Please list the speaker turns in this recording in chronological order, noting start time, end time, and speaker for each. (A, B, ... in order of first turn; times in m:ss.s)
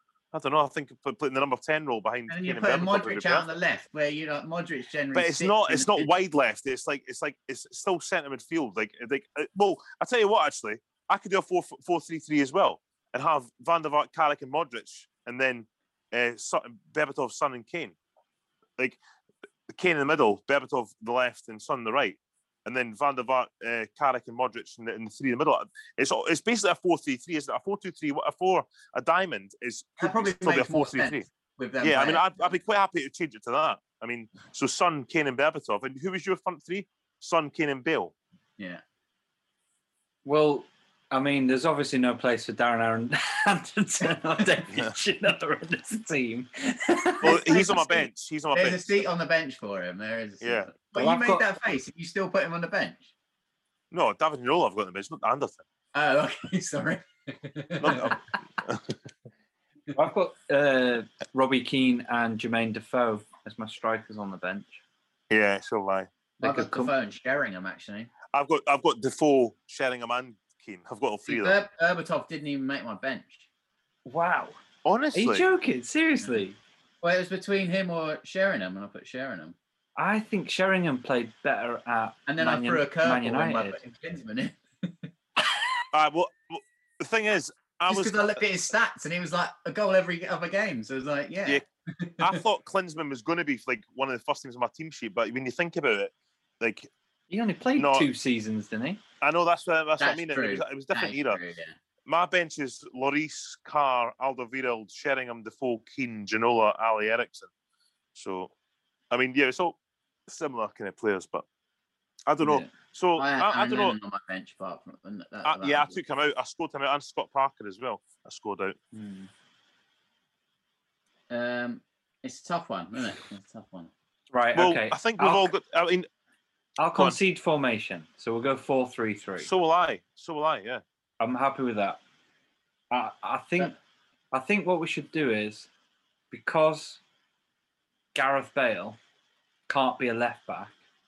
0:00.3-0:03.5 A
0:02.3-0:06.1 B
0:05.1-0:17.9 A
0:19.7-0:31.2 A
0:30.0-0:32.5 B
0:31.8-0:38.1 A
0:40.2-0:47.4 C
0:47.2-0:53.1 B
0:47.2-0:49.0 A
0:50.4-0:50.7 A
0:50.9-0:51.4 C
0:53.9-0:55.6 A
0:55.9-0:58.2 B
0:57.8-0:58.9 A
0:59.9-1:04.8 C
1:05.3-1:06.1 A
1:06.4-1:06.9 C
1:06.4-1:08.1 B
1:08.3-1:11.6 A
1:11.3-1:13.4 B
1:14.0-1:14.6 C
1:14.8-1:15.4 A
1:15.1-1:16.6 C
1:17.0-1:19.5 B
1:20.0-1:23.8 C
1:22.3-1:24.9 B
1:25.9-1:28.4 A
1:27.9-1:32.4 B
1:32.2-1:36.9 A
1:37.3-1:39.0 C
1:37.8-1:38.1 A
1:39.2-1:41.4 A
1:40.0-1:41.7 B
1:42.1-1:47.5 A
1:48.1-1:48.5 A
1:49.1-1:51.4 A
1:52.3-1:54.0 A
1:52.4-1:56.0 B
1:55.4-1:58.8 A
1:58.9-1:59.3 C
2:01.3-2:03.9 B
2:04.3-2:05.5 C
2:04.5-2:06.1 A
2:06.8-2:09.5 C
2:09.4-2:10.8 A
2:11.2-2:12.0 C
2:12.9-2:13.7 C
2:14.3-2:15.7 C
2:16.3-2:17.0 C
2:18.1-2:19.0 C
2:19.7-2:20.7 C